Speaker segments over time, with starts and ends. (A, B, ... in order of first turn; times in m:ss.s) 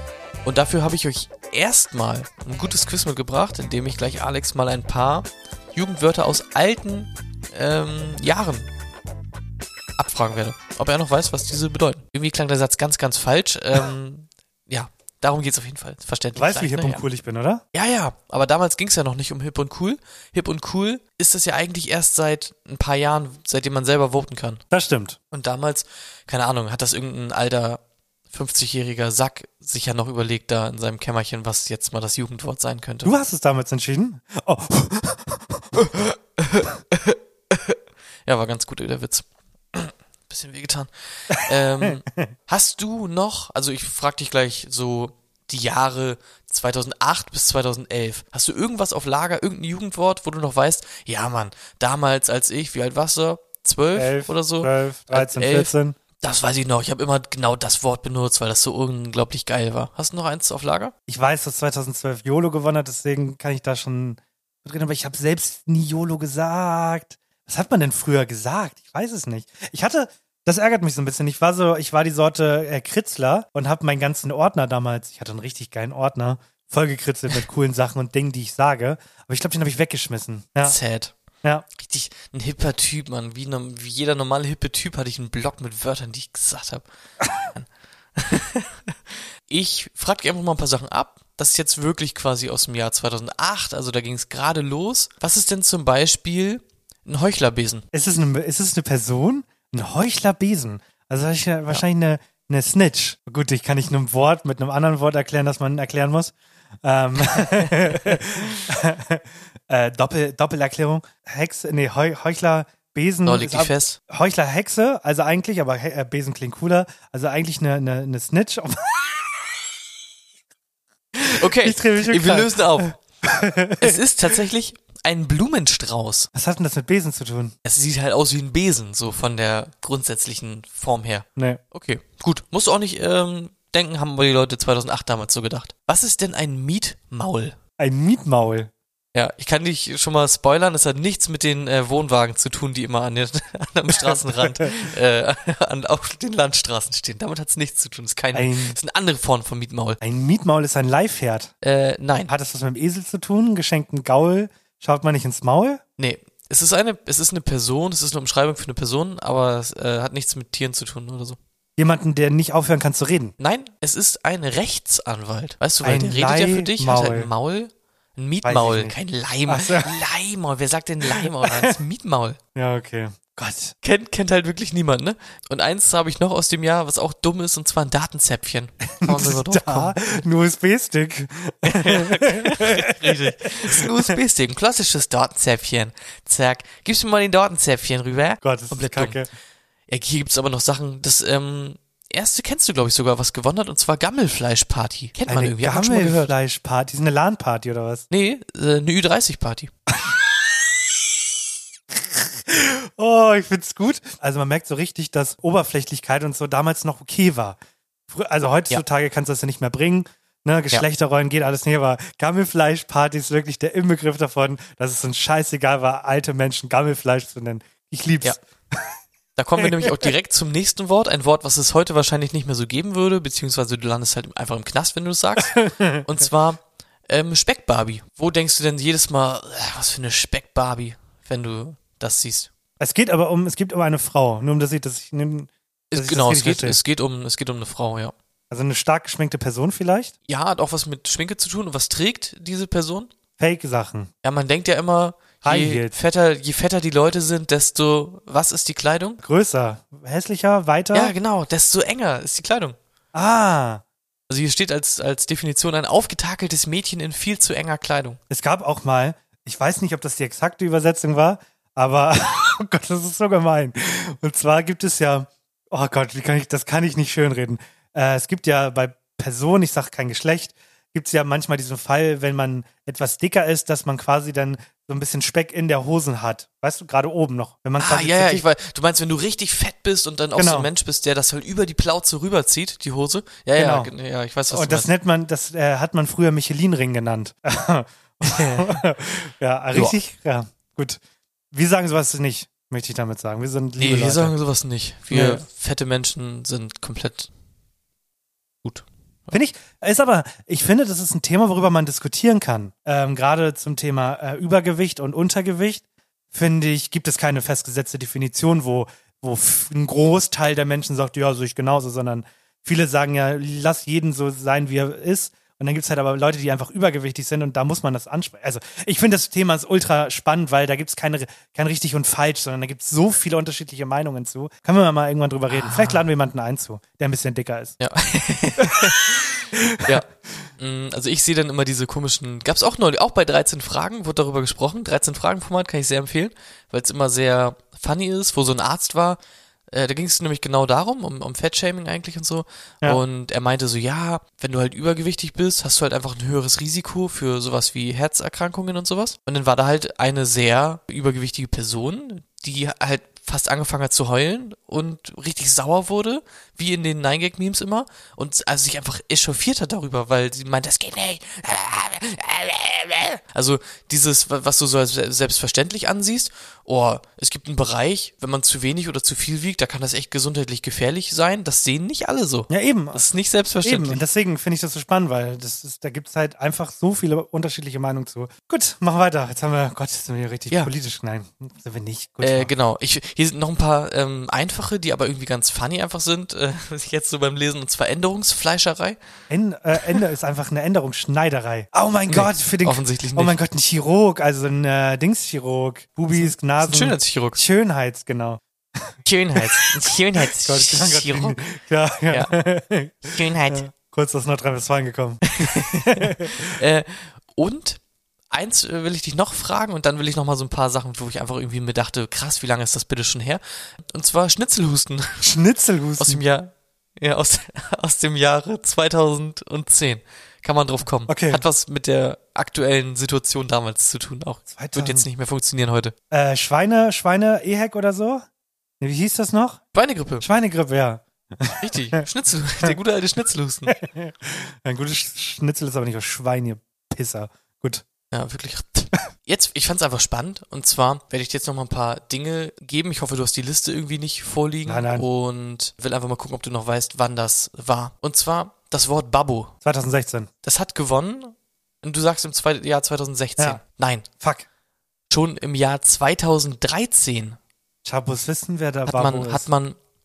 0:00.4-0:08.7 A
0:10.0-0:17.0 A
0:16.4-0:17.6 B
0:17.7-0:24.6 A
0:24.7-0:25.2 B
0:25.3-0:27.8 A
0:28.3-0:33.1 A
0:33.0-0:36.0 B
0:35.9-1:00.9 A
0:41.3-0:42.3 B
0:54.0-0:56.0 B
1:01.1-1:20.8 B
1:20.6-1:21.1 A
1:21.8-1:26.8 A
1:27.4-1:28.9 A
1:29.5-1:37.9 A
1:37.9-1:59.2 B
1:47.4-1:47.7 A
1:53.2-1:54.0 A
2:01.2-2:03.0 A
2:01.4-2:04.0 B
2:03.8-2:06.3 A
2:06.3-2:07.6 B
2:07.6-2:17.6 A
2:11.4-2:11.6 B
2:17.8-2:18.7 B
2:19.1-2:30.0 A
2:24.0-2:24.7 B
2:28.3-2:28.8 B
2:30.0-2:31.5 B
2:31.6-2:32.3 A
2:32.3-2:35.8 B
2:36.0-2:41.4 A
2:41.8-2:43.3 B
2:43.4-2:52.4 A
2:45.8-2:47.3 B
2:48.4-2:48.9 B
2:49.5-2:49.9 B
2:51.1-2:51.8 B
2:52.6-2:53.8 B
2:53.8-3:00.0 A
2:59.0-3:03.1 B
3:01.7-3:09.2 A
3:03.7-3:04.0 B
3:08.4-3:09.3 B
3:09.9-3:16.3 A
3:15.3-3:18.0 B
3:18.1-3:19.7 A
3:22.0-3:27.6 B
3:28.1-3:39.0 B
3:39.4-3:52.5 A
3:39.6-3:40.1 B
3:45.4-3:46.1 B
3:52.8-3:56.8 B
3:55.9-3:58.1 A
3:58.5-4:00.1 B
4:00.3-4:03.1 A
4:03.4-4:04.1 B
4:04.2-4:09.2 A
4:05.4-4:05.9 B
4:09.2-4:11.2 B
4:10.9-4:12.8 A
4:13.1-4:13.8 B
4:14.3-4:18.2 A
4:18.3-4:38.4 B
4:37.8-4:44.9 A
4:40.4-4:40.7 B
4:43.6-4:43.9 B
4:44.5-4:51.0 B
4:48.2-4:48.8 A
4:51.5-4:54.4 B
4:53.8-4:57.3 A
4:55.1-4:55.4 B
4:58.6-4:59.4 A
4:59.3-5:27.8 B
5:25.5-5:26.0 A
5:27.8-5:29.3 A
5:29.6-5:30.0 B
5:29.8-5:39.2 A
5:39.7-6:14.0 A
6:12.5-6:13.0 B
6:13.6-6:22.5 B
6:22.2-6:29.0 A
6:29.3-6:39.7 B
6:32.1-6:33.4 A
6:36.1-6:37.4 A
6:39.0-6:41.4 A
6:40.2-6:46.5 B
6:42.1-6:42.4 A
6:43.1-6:43.6 A
6:45.4-6:47.8 A
6:48.3-6:55.3 A
6:55.2-6:56.2 B
6:56.0-7:06.0 A
7:01.1-7:01.4 B
7:04.5-7:05.1 B
7:06.1-7:08.3 B
7:08.8-7:09.6 B
7:09.7-7:10.3 A
7:10.2-7:12.0 B
7:11.6-7:13.8 A
7:13.7-7:17.8 B
7:18.1-7:29.5 A
7:24.6-7:25.1 B
7:29.6-7:30.3 B
7:30.4-7:34.1 A
7:33.4-7:33.6 B
7:34.2-7:34.5 B
7:35.1-7:37.4 A
7:37.8-7:39.5 B
7:38.9-7:39.8 A